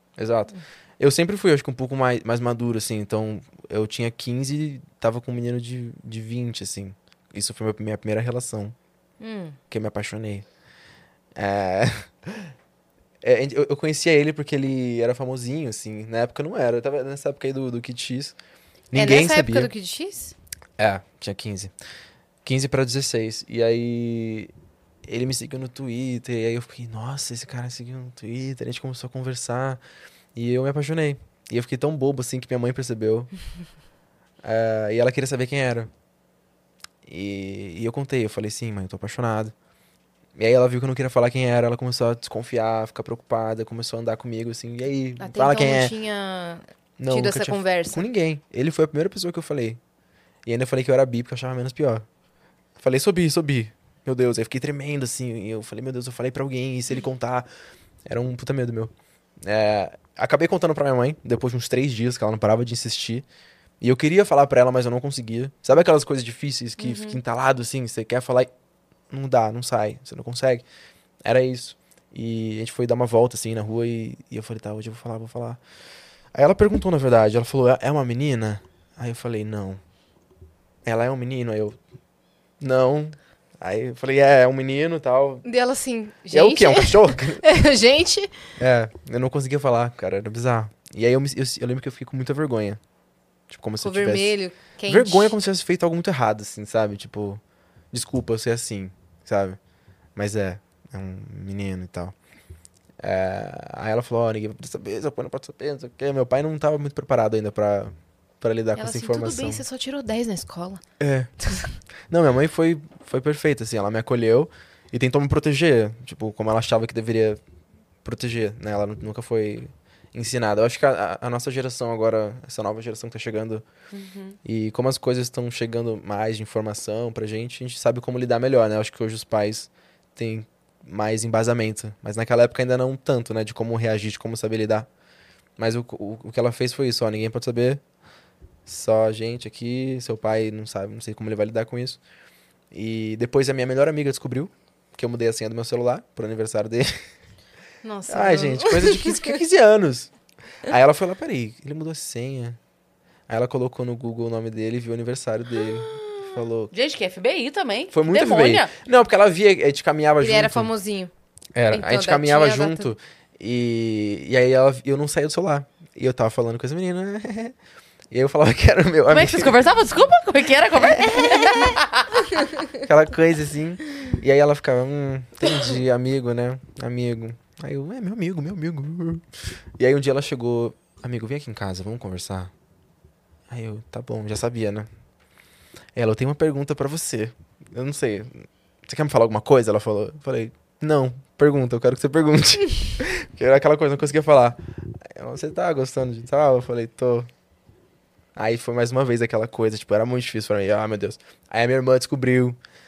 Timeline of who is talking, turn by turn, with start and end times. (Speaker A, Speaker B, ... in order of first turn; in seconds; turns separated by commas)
Speaker A: 0.2-8.7, Speaker B: 9.2-9.6, Speaker A: 9.7-10.4, Speaker A: 11.3-12.5, Speaker A: 13.2-18.4, Speaker A: 18.9-19.7, Speaker B: 18.9-20.3, Speaker A: 20.8-21.7, Speaker A: 22.4-24.5, Speaker A: 25.0-29.8, Speaker A: 30.3-33.3, Speaker A: 34.4-35.9, Speaker A: 37.0-39.5, Speaker A: 40.4-45.9, Speaker B: 45.2-48.0, Speaker A: 47.0-49.8, Speaker A: 50.5-52.0, Speaker A: 52.8-57.5, Speaker A: 58.0-63.2, Speaker A: 63.8-68.5, Speaker C: 66.8-67.2, Speaker A: 69.1-70.6, Speaker A: 71.2-75.6, Speaker A: 76.3-79.8, Speaker A: 80.8-81.8, Speaker A: 82.6-85.4, Speaker B: 85.4-88.5, Speaker A: 86.3-87.4, Speaker A: 88.6-92.8, Speaker A: 93.5-94.3, Speaker B: 93.8-95.3, Speaker A: 94.9-97.4, Speaker A: 97.9-99.6, Speaker A: 100.2-102.1, Speaker A: 103.0-109.6, Speaker B: 108.8-110.8, Speaker A: 111.0-111.3, Speaker A: 112.1-117.4, Speaker A: 118.0-123.6, Speaker C: 123.9-124.4, Speaker A: 124.4-134.9, Speaker A: 135.6-137.8, Speaker A: 138.7-142.0, Speaker A: 142.7-147.0, Speaker B: 147.8-149.3, Speaker A: 148.1-150.1, Speaker A: 150.6-152.6, Speaker A: 153.3-156.7, Speaker C: 156.7-158.7, Speaker A: 157.9-160.7, Speaker B: 160.2-161.1, Speaker A: 161.5-167.6, Speaker B: 161.7-162.9, Speaker A: 168.1-169.6, Speaker C: 169.1-172.2, Speaker A: 170.9-171.2, Speaker A: 172.8-179.2, Speaker A: 179.8-182.5, Speaker A: 183.5-184.9, Speaker A: 185.9-197.3, Speaker A: 198.3-202.6